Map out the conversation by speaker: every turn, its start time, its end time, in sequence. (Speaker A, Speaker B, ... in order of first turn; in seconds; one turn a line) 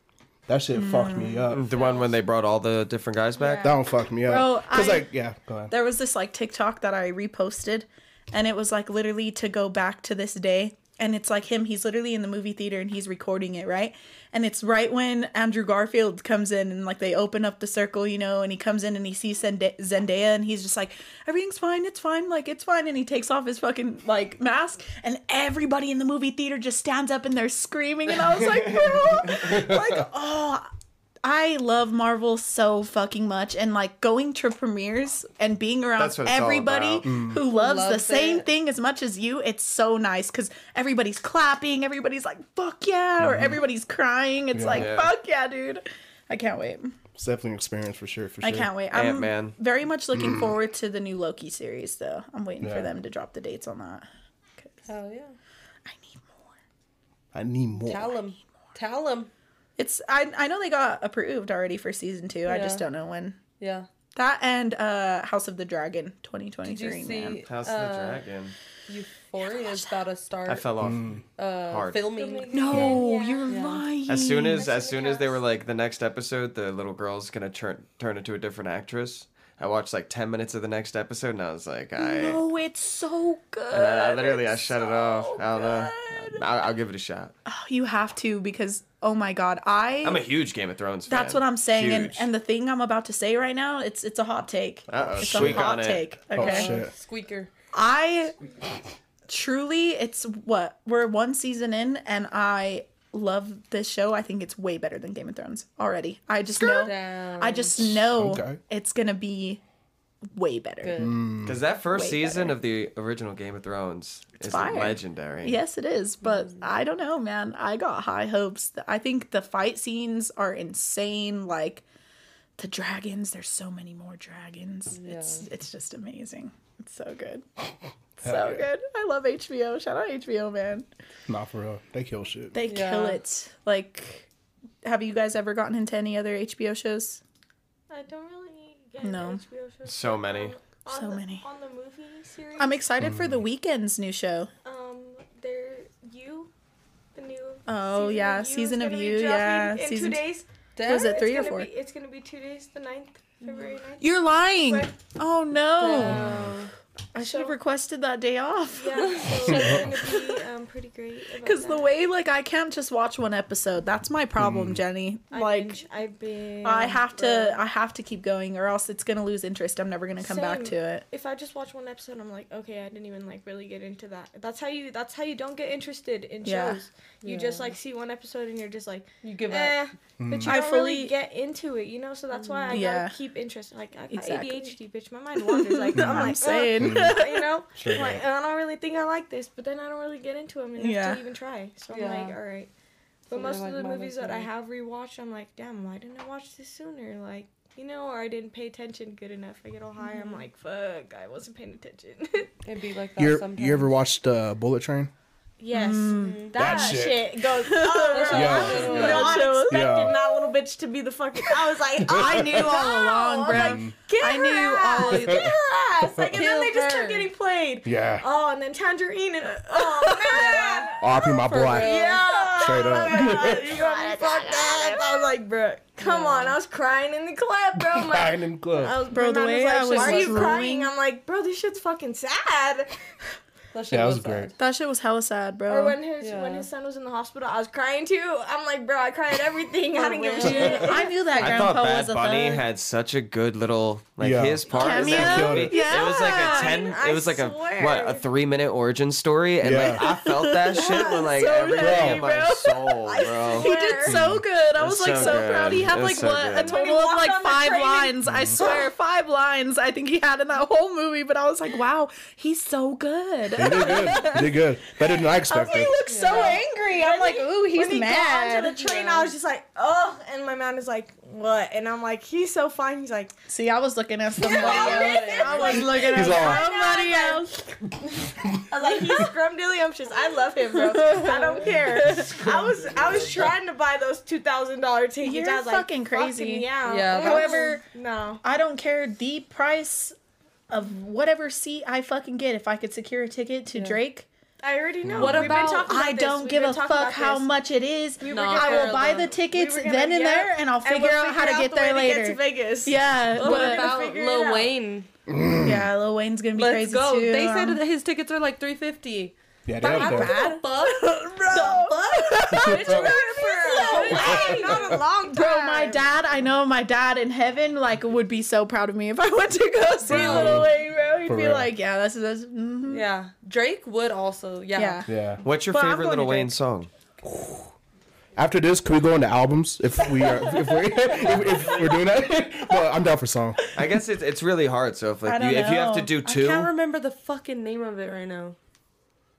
Speaker A: 0.5-1.7
Speaker B: 0.7-1.5
Speaker C: 1.5-3.8
Speaker D: 1.8-2.1
Speaker B: 3.4-5.1
Speaker A: 3.6-5.7
Speaker B: 5.7-30.7
Speaker A: 29.4-29.8
Speaker B: 31.2-47.0
Speaker C: 36.0-37.2
Speaker A: 37.0-37.4
Speaker E: 37.5-38.5
Speaker A: 43.2-43.6
Speaker A: 44.5-44.9
Speaker C: 44.7-45.1
Speaker A: 47.2-48.7
Speaker B: 48.4-54.1
Speaker C: 48.9-49.6
Speaker A: 50.1-50.5
Speaker A: 52.6-52.9
Speaker B: 54.6-54.9
Speaker E: 54.9-55.4
Speaker B: 55.9-56.5
Speaker A: 57.3-58.2
Speaker E: 57.8-59.3
Speaker B: 59.8-63.4
Speaker E: 62.5-62.9
Speaker E: 63.6-63.9
Speaker B: 64.2-67.4
Speaker E: 66.6-68.2
Speaker C: 67.5-68.5
Speaker E: 68.9-70.7
Speaker C: 70.5-71.1
Speaker A: 70.8-71.2
Speaker E: 71.4-73.8
Speaker C: 71.7-72.1
Speaker D: 72.1-73.6
Speaker B: 72.5-74.7
Speaker C: 74.1-82.4
Speaker D: 74.6-75.4
Speaker B: 82.0-86.5
Speaker C: 83.7-87.3
Speaker B: 87.5-90.3
Speaker C: 90.0-92.3
Speaker B: 91.1-96.8
Speaker C: 94.9-96.2
Speaker A: 95.4-95.6
Speaker A: 96.3-96.9
Speaker E: 96.3-97.5
Speaker B: 97.7-98.4
Speaker B: 99.3-109.6
Speaker E: 106.6-107.9
Speaker A: 108.0-108.6
Speaker B: 110.2-111.2
Speaker E: 110.8-111.2
Speaker A: 111.0-111.6
Speaker C: 111.4-115.6
Speaker B: 111.9-112.6
Speaker B: 114.4-121.8
Speaker B: 122.6-127.5
Speaker E: 125.0-125.5
Speaker B: 128.2-130.9
Speaker A: 128.2-128.7
Speaker A: 131.3-132.6
Speaker B: 132.5-134.3
Speaker E: 132.7-133.2
Speaker B: 134.8-137.2
Speaker D: 137.9-142.8
Speaker B: 139.0-139.4
Speaker C: 139.9-140.6
Speaker B: 140.9-141.4
Speaker B: 142.6-144.5
Speaker A: 143.0-143.4
Speaker D: 144.7-146.5
Speaker D: 147.2-154.1
Speaker B: 147.7-150.2
Speaker E: 150.8-151.2
Speaker B: 150.8-151.7
Speaker B: 154.0-156.4
Speaker D: 154.7-154.9
Speaker E: 155.8-156.7
Speaker C: 156.0-156.5
Speaker B: 157.1-160.4
Speaker D: 157.2-157.6
Speaker D: 158.8-161.9
Speaker A: 159.5-159.9
Speaker B: 161.4-165.8
Speaker A: 164.4-164.8
Speaker D: 165.3-167.6
Speaker B: 166.6-171.0
Speaker D: 170.2-192.7
Speaker B: 176.4-176.8
Speaker E: 177.2-177.7
Speaker E: 179.2-179.8
Speaker A: 180.2-180.5
Speaker B: 180.4-181.1
Speaker E: 182.3-182.8
Speaker B: 182.7-183.1
Speaker B: 184.1-184.7
Speaker B: 185.5-187.5
Speaker A: 186.0-187.2
Speaker A: 187.8-188.2
Speaker B: 190.8-191.2
Speaker E: 191.9-192.4
Speaker D: 193.3-202.5
Speaker E: 193.3-194.5
Speaker E: 202.6-204.0
Speaker A: 203.2-205.1
Speaker D: 205.6-233.0
Speaker B: 205.7-206.7
Speaker E: 206.2-206.5
Speaker A: 206.5-210.2
Speaker B: 207.6-210.0
Speaker E: 208.1-209.5
Speaker B: 212.1-215.5
Speaker A: 212.1-212.6
Speaker A: 213.5-213.9
Speaker E: 216.3-217.3
Speaker A: 217.8-218.2
Speaker B: 219.8-220.6
Speaker E: 220.3-220.9
Speaker A: 221.0-222.0
Speaker E: 221.4-222.5
Speaker B: 222.4-225.3
Speaker A: 222.6-223.6
Speaker E: 226.0-226.6
Speaker A: 227.8-229.0
Speaker B: 229.1-230.9
Speaker E: 229.9-230.6
Speaker E: 233.7-234.6
Speaker A: 233.9-234.5
Speaker B: 234.6-236.0
Speaker D: 235.7-241.2
Speaker E: 236.2-236.7
Speaker E: 239.9-241.4
Speaker B: 240.4-242.7
Speaker C: 241.3-253.7
Speaker A: 244.2-245.7
Speaker D: 244.7-248.3
Speaker B: 244.7-246.9
Speaker A: 249.6-250.0
Speaker B: 249.9-264.5
Speaker D: 250.8-251.4
Speaker A: 251.8-252.3
Speaker D: 253.0-254.2
Speaker A: 254.1-254.4
Speaker C: 254.8-256.8
Speaker D: 255.2-255.5
Speaker D: 256.6-258.9
Speaker A: 258.3-258.6
Speaker A: 263.6-266.0
Speaker B: 265.5-268.9
Speaker E: 266.1-266.6
Speaker D: 266.3-273.3
Speaker E: 268.9-269.3
Speaker B: 273.5-277.6
Speaker D: 274.4-277.7
Speaker E: 274.4-275.9
Speaker A: 276.1-276.6
Speaker D: 278.7-288.4
Speaker B: 280.8-282.6
Speaker B: 285.2-287.8
Speaker E: 286.9-287.7
Speaker B: 288.4-290.2
Speaker B: 290.7-294.3
Speaker E: 293.7-294.0
Speaker D: 294.6-297.5
Speaker A: 295.0-295.4
Speaker E: 295.2-295.9
Speaker B: 295.4-303.9
Speaker D: 298.2-304.7
Speaker E: 298.3-299.3
Speaker E: 303.3-305.1
Speaker A: 305.3-305.9
Speaker B: 305.6-307.8
Speaker E: 306.6-312.0
Speaker A: 309.7-310.4
Speaker B: 309.8-323.0
Speaker D: 311.5-316.1
Speaker A: 312.5-313.1
Speaker E: 313.8-314.8
Speaker A: 314.3-314.7
Speaker E: 320.1-320.7
Speaker A: 320.1-320.7
Speaker A: 321.3-321.7
Speaker E: 322.9-325.1
Speaker B: 324.8-326.5
Speaker A: 325.1-325.4
Speaker C: 325.4-326.9
Speaker A: 327.2-327.7
Speaker A: 328.4-333.6
Speaker B: 330.2-332.0
Speaker B: 333.8-334.0
Speaker C: 333.8-336.7
Speaker B: 335.2-336.7
Speaker E: 336.7-338.6